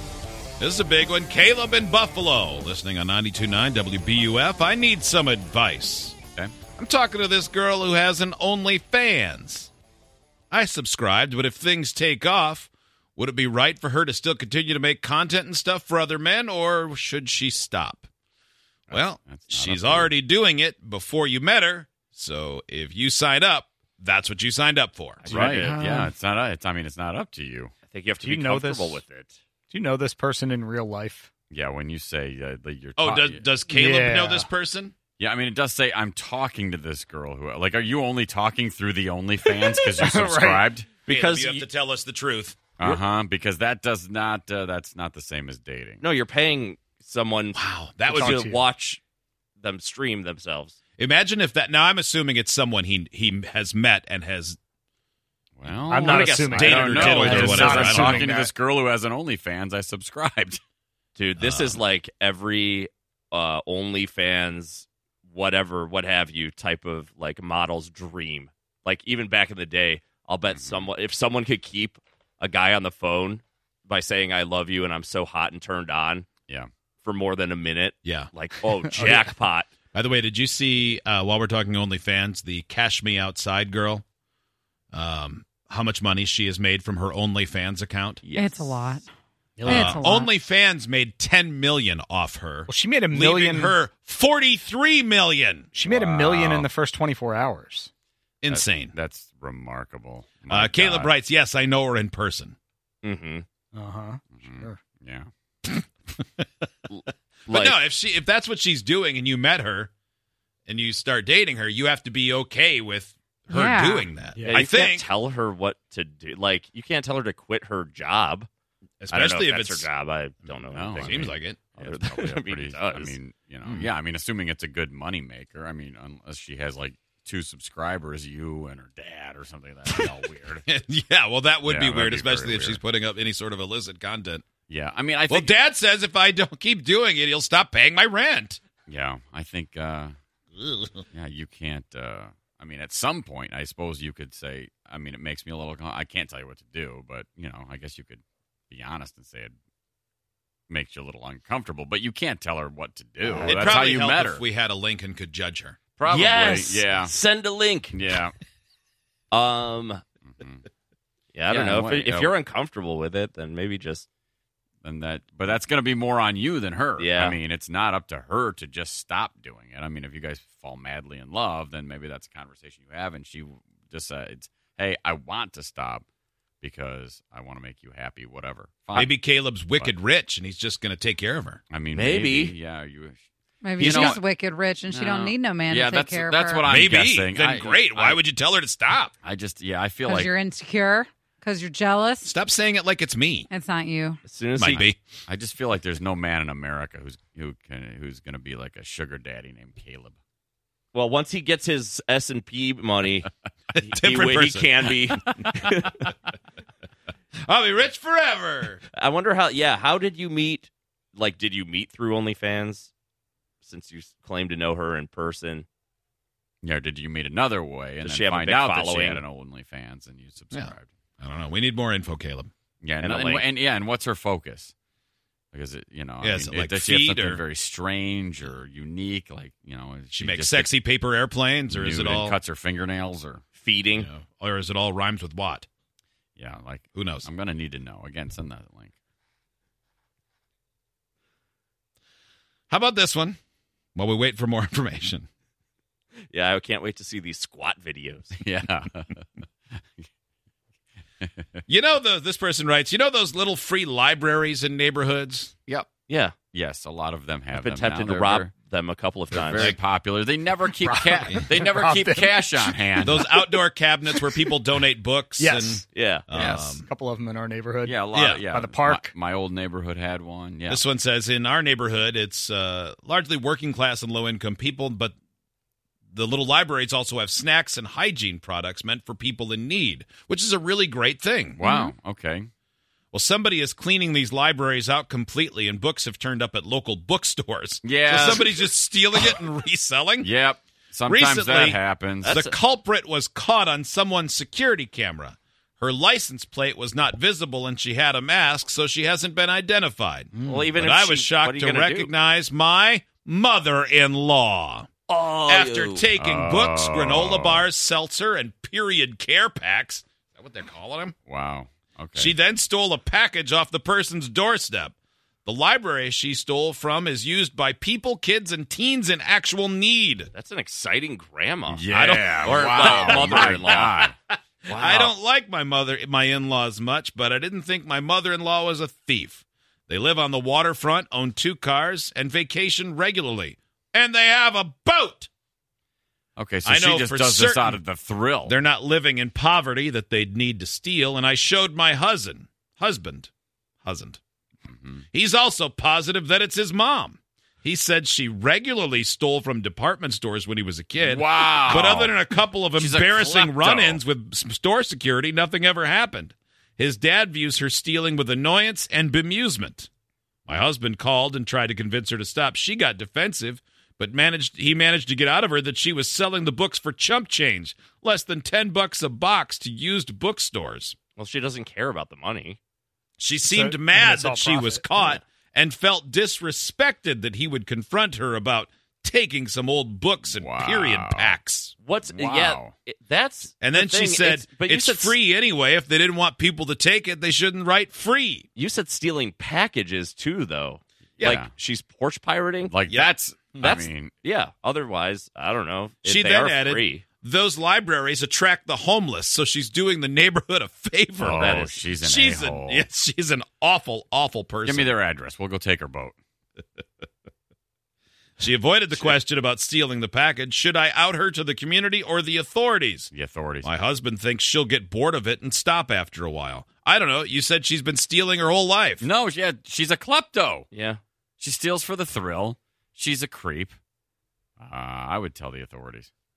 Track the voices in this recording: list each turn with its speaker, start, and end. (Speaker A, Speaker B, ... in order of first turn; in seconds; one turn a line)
Speaker A: 0.6-6.2
Speaker A: 6.7-9.7
Speaker A: 10.5-18.1
Speaker B: 18.9-20.1
Speaker A: 18.9-25.5
Speaker C: 25.2-25.8
Speaker B: 25.2-27.7
Speaker D: 25.7-26.1
Speaker C: 27.9-29.4
Speaker D: 28.2-29.0
Speaker D: 29.7-31.3
Speaker B: 31.5-33.5
Speaker A: 33.0-35.0
Speaker D: 33.6-34.5
Speaker B: 35.2-40.9
Speaker D: 39.4-40.6
Speaker C: 41.1-41.7
Speaker A: 41.1-42.8
Speaker B: 42.8-46.0
Speaker C: 46.0-47.6
Speaker A: 47.5-48.4
Speaker D: 48.1-48.7
Speaker C: 48.1-49.0
Speaker C: 49.6-50.8
Speaker A: 51.0-54.6
Speaker B: 55.6-60.6
Speaker D: 55.9-58.5
Speaker C: 56.0-57.9
Speaker A: 56.5-58.3
Speaker C: 61.1-76.3
Speaker A: 61.4-61.8
Speaker B: 70.5-70.9
Speaker C: 77.0-79.7
Speaker A: 78.0-78.3
Speaker D: 78.9-79.3
Speaker A: 79.9-84.0
Speaker A: 84.9-88.2
Speaker C: 88.2-89.0
Speaker E: 88.3-89.0
Speaker D: 89.6-90.2
Speaker A: 89.7-95.7
Speaker E: 89.7-90.3
Speaker D: 92.7-93.8
Speaker D: 95.7-97.9
Speaker B: 95.9-96.7
Speaker A: 98.4-99.0
Speaker B: 98.5-101.2
Speaker A: 100.5-102.6
Speaker C: 103.0-103.5
Speaker D: 103.7-104.8
Speaker B: 104.3-105.3
Speaker A: 106.4-106.7
Speaker C: 106.9-107.8
Speaker A: 107.5-109.9
Speaker A: 110.7-115.1
Speaker E: 113.5-114.1
Speaker D: 114.3-114.7
Speaker C: 114.5-118.5
Speaker A: 119.0-119.9
Speaker C: 119.1-123.2
Speaker B: 120.7-130.6
Speaker A: 121.0-121.6
Speaker A: 130.7-134.5
Speaker B: 131.7-132.8
Speaker B: 134.7-135.5
Speaker A: 135.3-138.6
Speaker B: 138.9-140.1
Speaker A: 140.6-140.9
Speaker B: 141.1-149.5
Speaker B: 150.7-154.4
Speaker A: 153.3-155.8
Speaker B: 156.0-157.1
Speaker C: 156.1-158.0
Speaker B: 157.9-158.3
Speaker C: 159.3-160.0
Speaker B: 160.3-160.7
Speaker C: 161.3-164.1
Speaker B: 161.5-162.3
Speaker B: 164.8-176.1
Speaker C: 167.0-167.4
Speaker B: 176.6-179.2
Speaker A: 178.9-181.6
Speaker B: 181.7-183.2
Speaker C: 181.9-182.5
Speaker E: 183.6-186.6
Speaker C: 183.8-184.2
Speaker B: 183.8-184.2
Speaker B: 184.9-188.2
Speaker A: 186.6-189.1
Speaker B: 189.2-190.3
Speaker E: 190.1-192.3
Speaker A: 192.2-193.5
Speaker E: 193.5-194.2
Speaker C: 194.2-194.9
Speaker A: 194.6-195.0
Speaker B: 194.7-200.2
Speaker C: 200.9-206.1
Speaker A: 203.7-204.7
Speaker A: 207.4-208.8
Speaker C: 208.9-212.9
Speaker C: 213.6-215.7
Speaker B: 216.6-220.9
Speaker C: 218.0-219.2
Speaker A: 220.5-222.5
Speaker B: 222.8-224.7
Speaker C: 223.0-223.4
Speaker B: 225.5-230.7
Speaker A: 226.2-227.4
Speaker A: 230.1-232.4
Speaker B: 231.7-233.4
Speaker C: 233.6-234.1
Speaker A: 233.9-235.7
Speaker B: 236.4-238.9
Speaker A: 236.9-237.3
Speaker A: 242.7-243.4
Speaker A: 244.0-245.3
Speaker C: 246.3-248.3
Speaker B: 248.4-249.4
Speaker B: 251.2-251.6
Speaker A: 251.7-255.6
Speaker C: 256.1-256.4
Speaker B: 256.5-258.5
Speaker C: 257.6-259.7
Speaker B: 259.3-263.3
Speaker D: 260.7-264.6
Speaker A: 263.0-266.9
Speaker D: 265.4-269.1
Speaker C: 265.9-266.3
Speaker B: 266.3-266.7
Speaker B: 267.8-270.8
Speaker A: 270.7-275.1
Speaker A: 276.1-281.6
Speaker B: 281.6-282.5
Speaker E: 281.6-281.9
Speaker A: 283.1-290.3
Speaker B: 287.8-288.6
Speaker B: 290.2-292.4
Speaker A: 291.1-304.9
Speaker C: 292.2-292.6
Speaker C: 300.5-302.1
Speaker C: 305.1-306.1
Speaker A: 305.5-311.1
Speaker B: 306.2-307.6
Speaker B: 311.3-312.3
Speaker A: 312.2-320.3
Speaker C: 320.3-321.8
Speaker B: 321.7-324.1
Speaker A: 321.9-323.8
Speaker C: 322.4-324.1
Speaker A: 324.7-335.3
Speaker C: 324.7-325.1
Speaker B: 324.7-325.1
Speaker B: 336.4-338.6
Speaker A: 336.6-337.8
Speaker A: 338.5-343.3
Speaker A: 343.8-344.2
Speaker B: 344.7-345.0
Speaker A: 345.1-359.9
Speaker B: 351.0-352.2
Speaker B: 352.8-354.0
Speaker A: 360.5-371.0
Speaker C: 371.2-372.6
Speaker A: 373.2-381.8
Speaker D: 373.4-375.2
Speaker B: 380.3-381.4
Speaker C: 381.8-385.2
Speaker B: 382.1-382.7
Speaker A: 383.6-388.5
Speaker C: 388.6-392.7
Speaker B: 391.2-391.5
Speaker B: 392.7-394.1
Speaker C: 393.6-397.1
Speaker A: 396.1-404.9
Speaker B: 401.2-402.9
Speaker C: 401.3-401.8
Speaker B: 404.6-406.1
Speaker A: 408.4-413.1
Speaker B: 413.1-413.7
Speaker A: 413.6-419.1
Speaker B: 419.0-420.7
Speaker C: 420.7-421.0
Speaker B: 421.4-423.8
Speaker B: 424.6-426.1